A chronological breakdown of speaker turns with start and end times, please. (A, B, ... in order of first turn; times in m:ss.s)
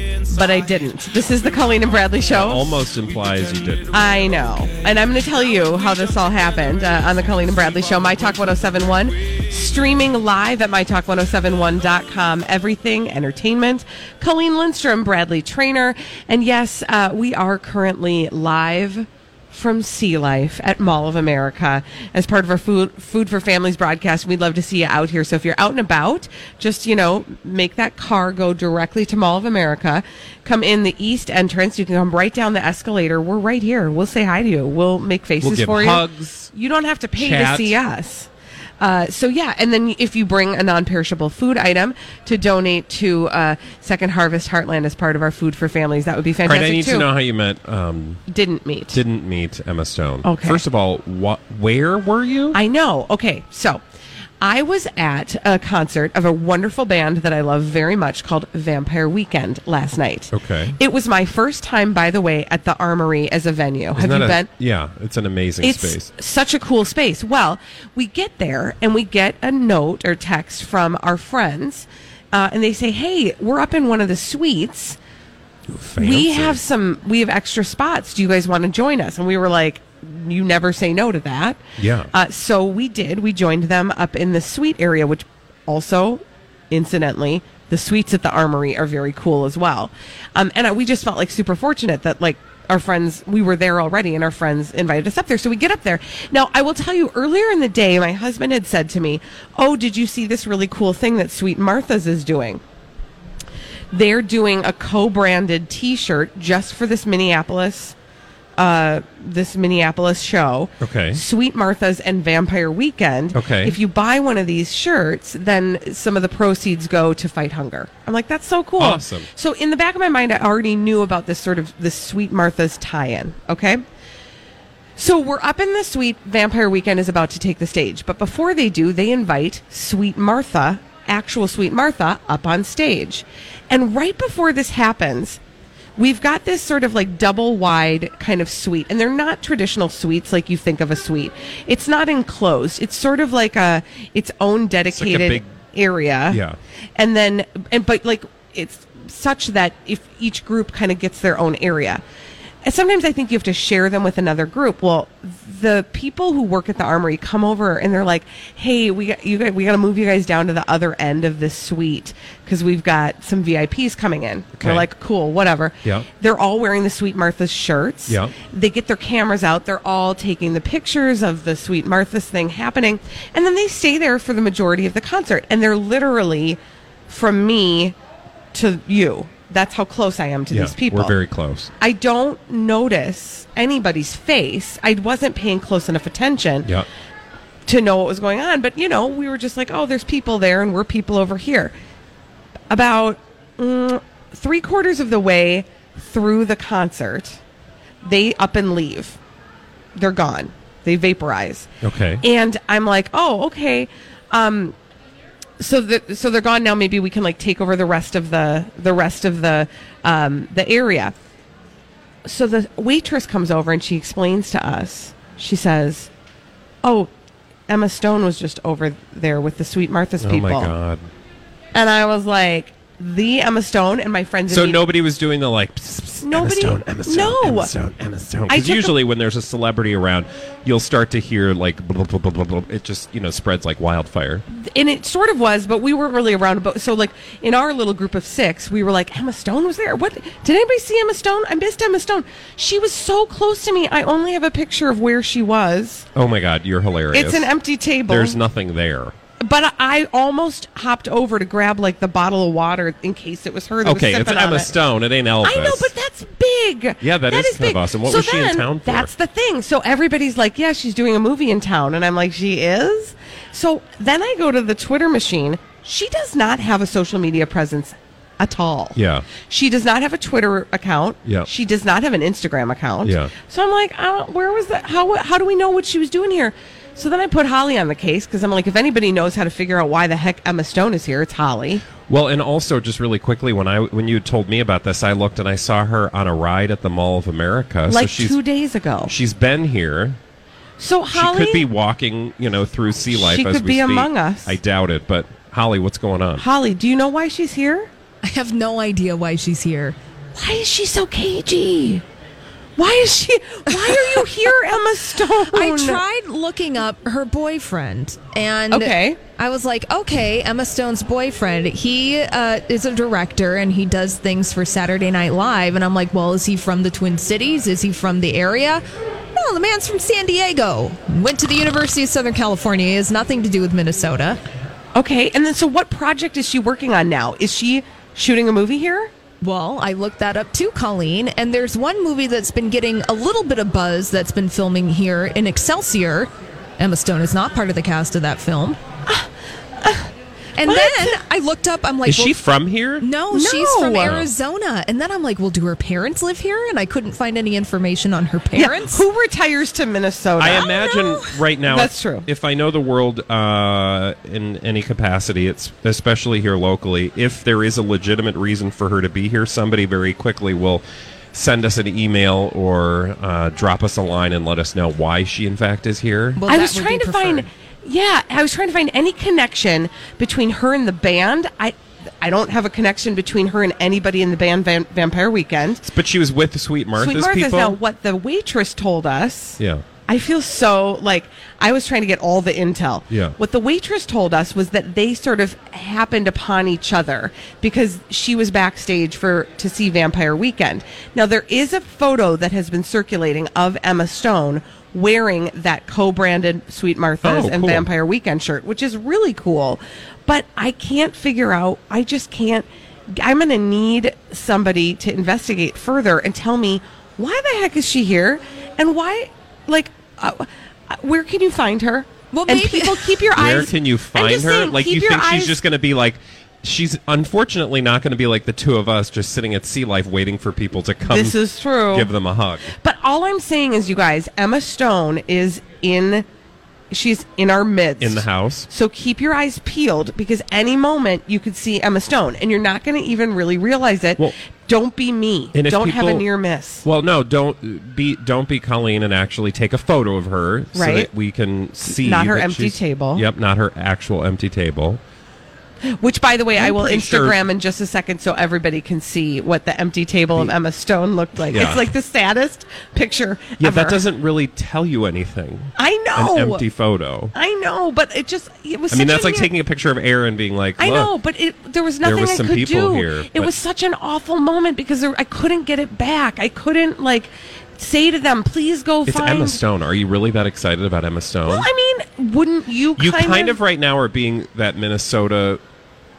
0:00.3-0:02.8 A
0:02.2-0:04.0 B
0:03.9-0:47.1 A
0:35.4-0:36.5 B
0:37.2-0:37.8 B
0:46.4-0:48.2 B
0:48.3-0:49.0 A
0:48.9-0:52.6 B
0:50.2-0:50.6 A
0:52.5-0:53.8 A
0:54.4-1:04.5 A
1:00.3-1:00.8 B
1:04.0-1:06.1 B
1:05.6-1:15.0 A
1:15.7-1:16.6 B
1:16.0-1:21.6 A
1:21.8-1:22.1 B
1:22.1-1:42.6 A
1:43.9-1:48.0 A
1:48.6-2:03.8 A
1:50.8-1:51.2 B
1:53.3-1:53.8 B
1:58.8-1:59.3 B
2:05.0-2:15.4 A
2:16.0-2:26.4 A
2:24.9-2:25.5 B
2:26.3-2:26.6 B
2:27.0-2:32.0 A
2:32.6-2:58.0 A
2:44.6-2:44.9 B
2:48.1-2:48.3 B
2:58.5-3:01.2 A
3:00.5-3:01.7 B
3:01.8-3:06.7 A
3:07.7-3:11.7 A
3:12.7-3:17.4 A
3:18.0-3:19.2 A
3:20.0-3:21.7 A
3:21.8-3:22.2 B
3:22.2-3:24.8 A
3:25.6-3:31.2 A
3:32.2-3:36.1 A
3:36.8-3:37.1 A
3:37.7-3:40.7 A
3:40.2-3:41.1 B
3:41.7-3:44.9 A
3:44.5-3:54.4 B
3:46.2-3:47.7 A
3:48.5-3:49.0 A
3:54.5-4:06.1 A
4:06.2-4:07.5 B
4:07.1-4:08.4 A
4:08.1-4:09.2 B
4:09.4-4:14.8 A
4:13.8-4:15.9 B
4:15.4-4:41.8 A
4:17.0-4:19.1 B
4:29.0-4:29.3 B
4:33.0-4:33.3 B
4:42.1-4:48.4 B
4:47.9-4:49.1 A
4:49.1-4:50.2 B
4:50.8-4:51.7 A
4:51.1-4:56.4 B
4:53.1-4:54.6 A
4:56.4-4:57.9 A
4:58.2-5:00.0 C
5:00.3-5:02.0 A
5:02.8-5:06.0 A
5:05.5-5:18.8 C
5:08.7-5:09.2 A
5:19.4-5:24.4 C
5:25.0-5:29.1 A
5:29.4-5:38.8 C
5:39.8-5:40.1 A
5:40.6-5:42.4 C
5:40.6-5:41.2 A
5:42.0-5:43.1 B
5:43.0-5:49.0 C
5:43.3-5:44.2 A
5:44.0-5:44.3 B
5:48.5-5:50.7 A
5:50.4-6:06.4 B
5:50.6-5:51.3 C
5:51.7-5:52.3 A
6:06.4-6:07.4 C
6:06.5-6:15.8 A
6:15.8-6:17.8 B
6:17.0-6:55.6 A
6:19.6-6:19.8 B
6:23.1-6:23.4 B
6:37.2-6:37.9 B
6:52.3-6:53.2 C
6:53.3-7:02.7 B
7:01.1-7:02.1 A
7:02.7-7:06.3 A
7:06.9-7:16.8 A
7:08.0-7:08.7 B
7:15.5-7:16.3 B
7:16.8-7:25.0 B
7:20.7-7:21.1 A
7:21.8-7:23.2 A
7:26.0-7:34.0 A
7:26.6-7:27.4 B
7:31.5-7:31.8 B
7:33.6-7:37.4 B
7:35.8-7:36.6 A
7:37.4-7:39.5 A
7:38.9-7:41.1 B
7:40.8-7:49.6 A
7:42.0-7:43.5 B
7:49.1-7:51.7 B
7:51.5-7:53.6 A
7:53.0-7:55.6 B